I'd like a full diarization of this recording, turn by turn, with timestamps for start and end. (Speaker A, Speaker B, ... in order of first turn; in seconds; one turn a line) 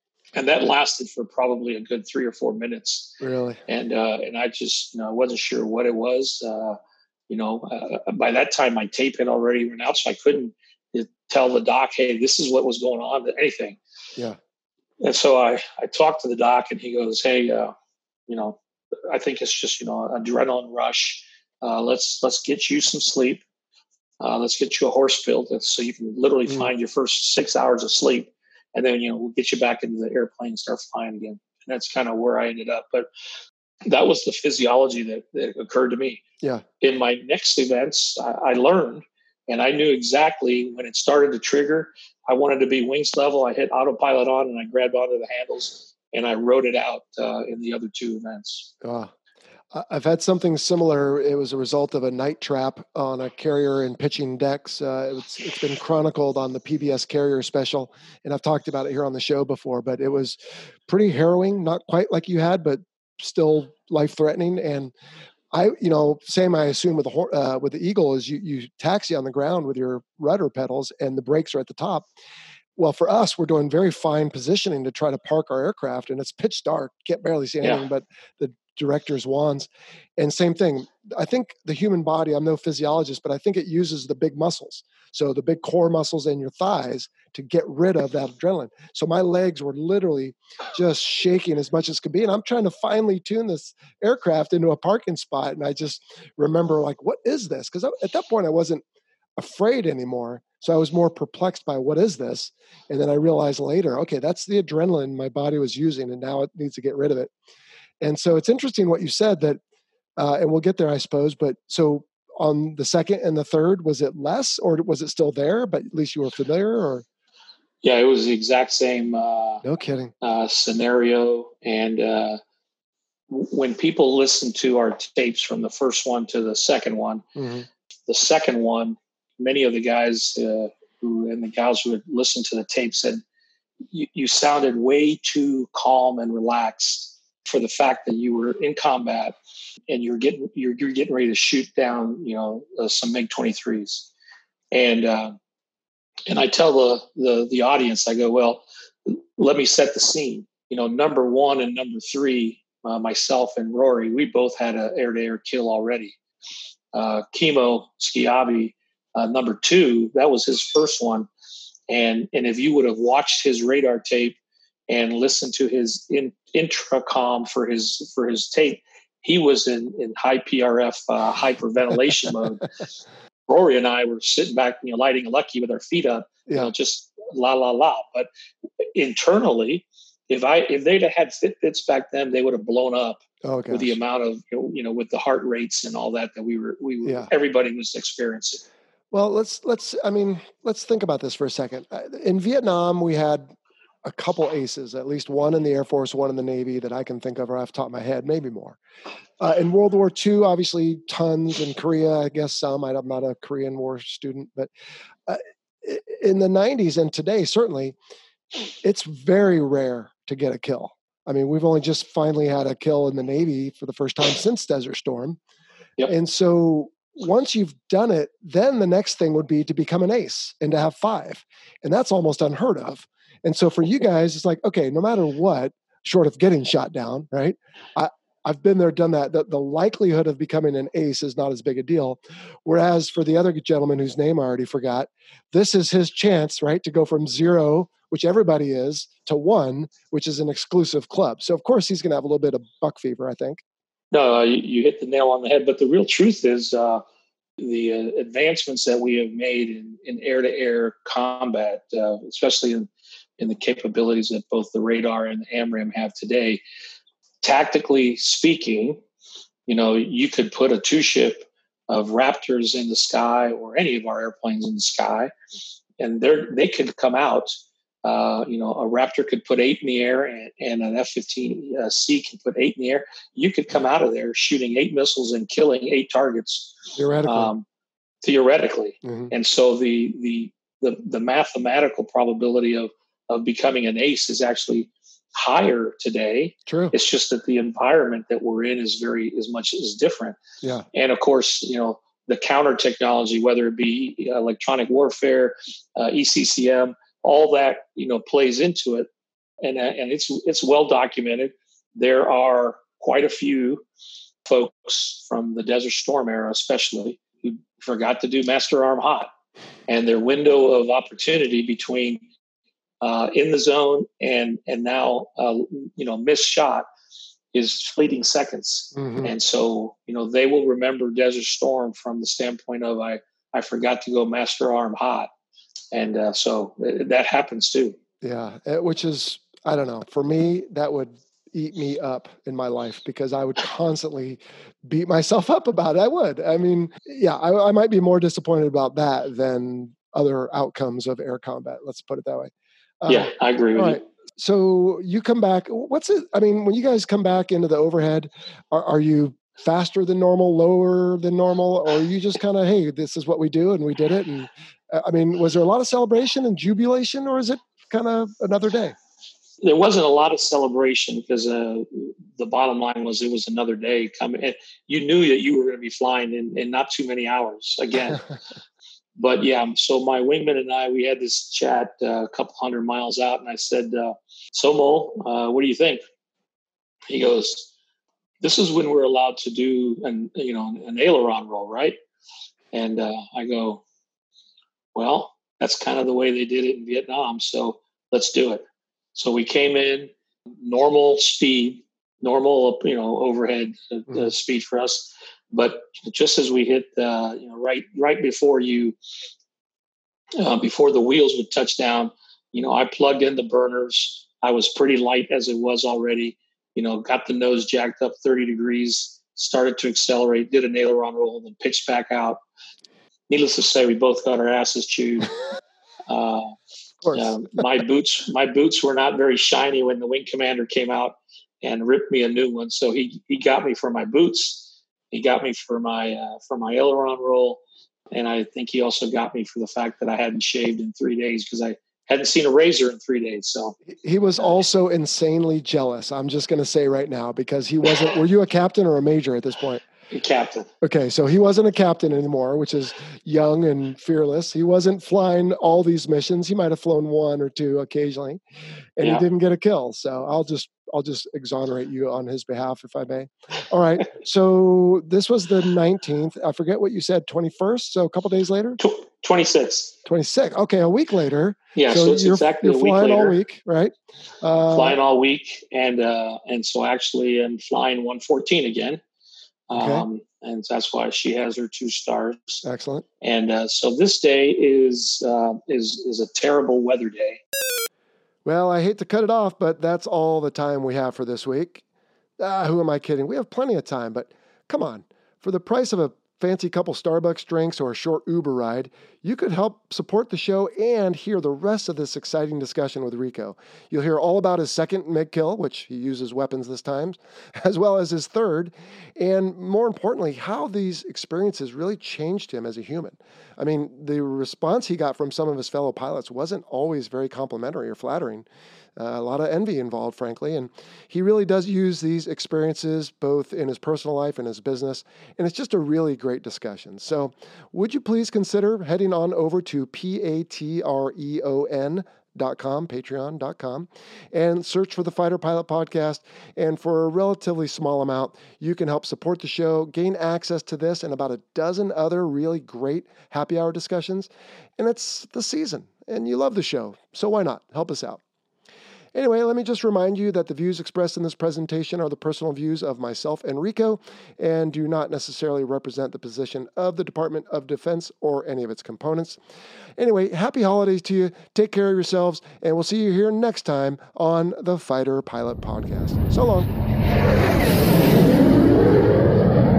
Speaker A: 0.3-6.8
Speaker B: 3.2-3.6
Speaker A: 7.3-13.8
Speaker A: 15.0-17.7
Speaker A: 18.3-23.4
Speaker A: 24.2-33.1
Speaker A: 33.9-36.2
Speaker A: 36.8-48.7
Speaker B: 48.8-49.1
Speaker B: 49.7-64.9
Speaker B: 65.5-72.1
Speaker B: 72.8-98.8
Speaker B: 99.4-107.3
Speaker B: 108.0-109.6
Speaker B: 110.2-117.0
Speaker A: 117.8-119.6
Speaker B: 119.6-120.1
Speaker A: 120.2-122.4
Speaker A: 123.3-127.2
Speaker B: 127.4-127.7
Speaker A: 128.1-133.2
Speaker A: 133.9-139.3
Speaker A: 139.9-144.1
Speaker A: 144.7-145.4
Speaker A: 146.3-156.2
Speaker A: 156.9-161.3
Speaker A: 161.9-164.4
Speaker A: 164.9-172.7
Speaker A: 173.5-178.3
Speaker B: 176.5-176.7
Speaker A: 178.9-188.6
Speaker B: 183.4-184.0
Speaker B: 187.0-187.3
Speaker B: 189.1-198.8
Speaker B: 199.4-204.7
Speaker B: 205.3-207.9
Speaker B: 208.8-215.4
Speaker B: 216.1-243.6
Speaker A: 244.1-247.0
Speaker A: 247.6-256.6
Speaker A: 257.4-259.0
Speaker A: 259.7-265.3
Speaker A: 266.0-267.5
Speaker A: 268.0-277.6
Speaker B: 277.0-277.5
Speaker A: 278.2-290.4
Speaker B: 279.0-279.3
Speaker B: 286.7-286.9
Speaker A: 290.9-299.1
Speaker A: 299.6-303.8
Speaker A: 304.4-309.3
Speaker A: 309.9-312.2
Speaker A: 313.0-316.9
Speaker A: 317.5-325.3
Speaker B: 318.9-319.3
Speaker A: 325.9-328.0
Speaker B: 328.2-359.0
Speaker A: 343.1-344.0
Speaker A: 359.6-368.2
Speaker A: 369.2-376.0
Speaker A: 377.1-377.7
Speaker A: 378.4-382.0
Speaker A: 382.7-383.8
Speaker A: 384.9-399.0
Speaker A: 400.4-412.4
Speaker A: 413.3-415.3
Speaker A: 416.1-416.6
Speaker B: 417.0-417.4
Speaker A: 417.1-433.8
Speaker B: 433.9-439.8
Speaker A: 440.1-440.7
Speaker B: 440.8-448.4
Speaker B: 449.0-458.8
Speaker A: 458.8-459.9
Speaker B: 460.1-465.0
Speaker A: 461.8-463.4
Speaker A: 464.7-469.0
Speaker A: 469.7-472.6
Speaker B: 469.7-470.1
Speaker B: 472.6-473.1
Speaker A: 473.2-477.4
Speaker B: 478.4-481.8
Speaker B: 482.4-538.2
Speaker B: 539.1-549.4
Speaker B: 550.0-556.7